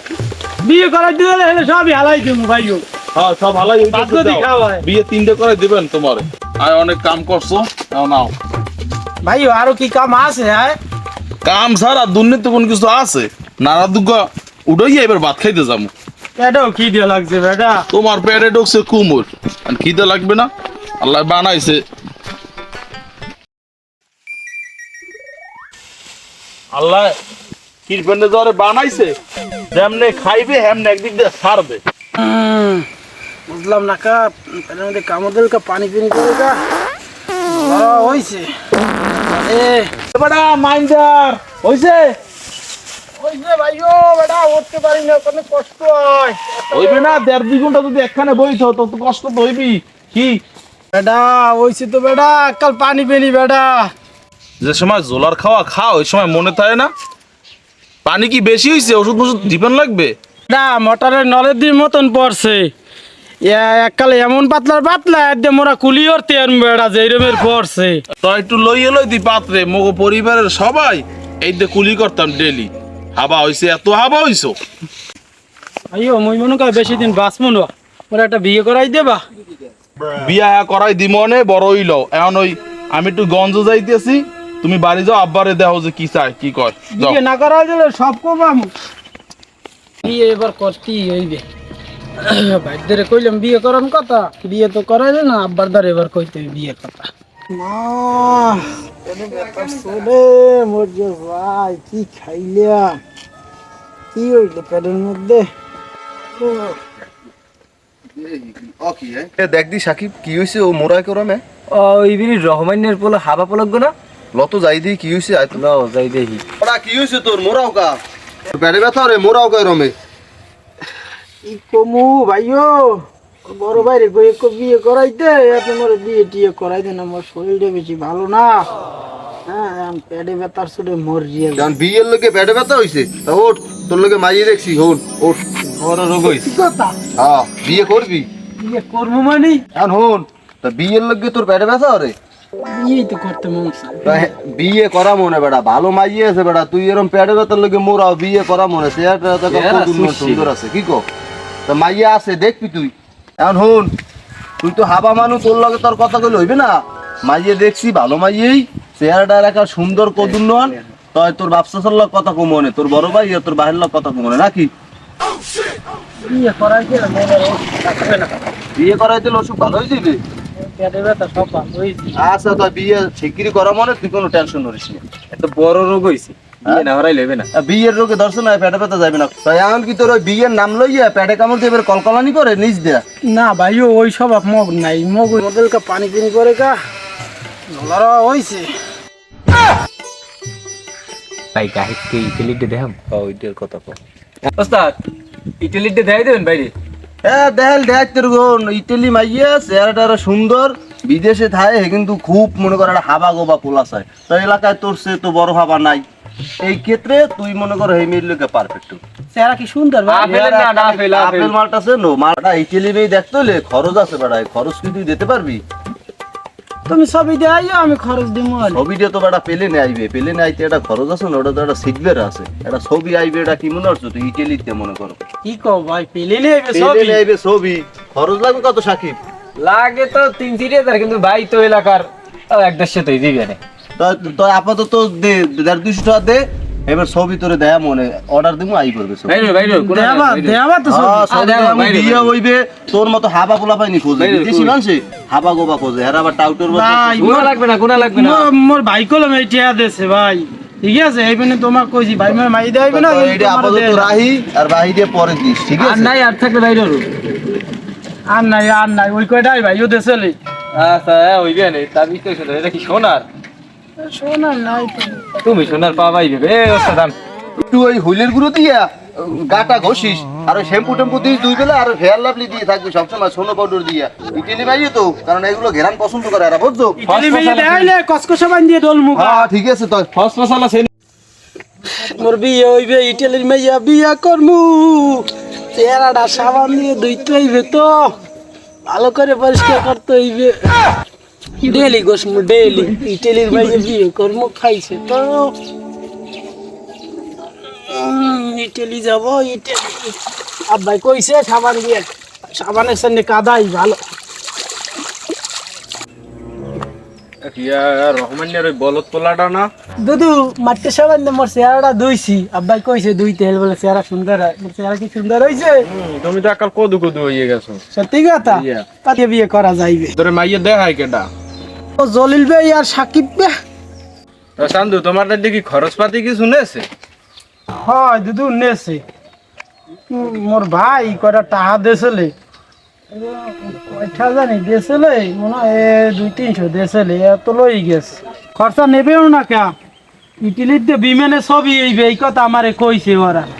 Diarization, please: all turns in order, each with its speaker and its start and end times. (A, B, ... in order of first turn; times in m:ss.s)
0:00.6-0:02.8 A
0:03.1-0:08.3 B
0:03.9-0:04.8 A
0:09.2-0:10.8 A
0:11.4-0:15.9 B
0:16.4-0:17.9 A
0:17.9-0:20.5 B
0:21.0-0:21.8 B
0:26.7-0:27.2 B
0:27.9-0:29.2 B
0:29.7-0:31.8 B
0:32.2-0:32.8 A
0:33.5-0:36.6 A
0:37.5-0:38.5 A
0:39.2-0:39.9 A
0:40.1-0:42.1 B
0:43.2-0:47.2 A
0:46.7-0:50.4 B
0:50.9-0:53.9 A
0:54.6-0:56.9 B
0:58.0-1:00.1 B
1:00.5-1:02.7 A
1:03.4-1:08.0 A
1:08.2-1:14.6 B
1:15.9-1:19.2 A
1:20.1-1:27.2 B
1:26.9-1:28.7 A
1:30.0-1:31.4 A
1:32.2-1:43.0 A
1:44.1-1:45.5 A
1:46.4-1:46.8 A
1:48.1-1:51.4 C
1:51.7-1:53.9 D
1:54.3-1:55.6 C
1:55.5-1:56.4 D
1:56.6-1:58.0 C
1:58.5-1:59.9 C
2:01.4-2:08.7 A
2:09.4-2:11.7 A
2:11.5-2:15.5 C
2:15.7-2:16.5 D
2:16.2-2:17.0 A
2:17.2-2:18.3 C
2:18.6-2:19.6 A
2:19.7-2:22.1 C
2:22.6-2:24.3 A
2:24.0-2:31.0 C
2:29.5-2:30.5 D
2:31.7-2:33.9 C
2:34.6-2:44.7 C
2:40.2-2:40.8 D
2:46.2-2:48.3 A
2:48.8-2:50.2 C
2:50.6-2:52.2 A
2:52.2-2:55.0 C
2:55.3-2:57.5 D
2:57.5-3:03.0 C
3:03.3-3:06.8 A
3:07.7-3:08.7 A
3:11.5-3:14.0 D
3:14.5-3:15.0 D
3:15.6-3:16.7 D
3:17.2-3:26.0 C
3:26.6-3:29.0 C
3:29.3-3:30.4 A
3:30.1-3:31.5 D
3:30.2-3:35.6 C
3:36.9-3:38.8 A
3:38.7-3:45.2 C
3:45.4-3:47.2 A
3:46.7-3:49.2 C
3:49.6-3:53.6 D
3:54.0-3:59.4 C
3:59.2-4:00.6 D
3:59.8-4:01.2 A
4:00.9-4:07.4 C
4:01.3-4:02.3 D
4:04.2-4:04.8 D
4:06.7-4:14.1 A
4:07.2-4:08.5 D
4:12.9-4:16.1 C
4:15.8-4:17.1 D
4:18.3-4:20.4 A
4:20.7-4:23.2 D
4:24.0-4:25.8 A
4:25.4-4:27.1 D
4:27.6-4:37.0 C
4:37.0-4:39.5 A
4:37.0-4:37.9 D
4:39.1-4:40.1 C
4:40.1-4:40.9 D
4:41.9-4:48.1 A
4:48.9-4:50.8 A
4:51.6-4:55.5 A
4:57.8-5:00.1 A
5:00.7-5:04.0 A
5:07.4-5:09.7 D
5:10.0-5:15.8 A
5:15.9-5:17.8 D
5:17.9-5:20.1 A
5:18.4-5:18.8 D
5:20.2-5:21.3 D
5:22.0-5:23.5 A
5:24.6-5:26.8 D
5:27.8-5:29.0 A
5:30.1-5:32.3 A
5:33.1-5:39.7 A
5:40.4-5:43.5 A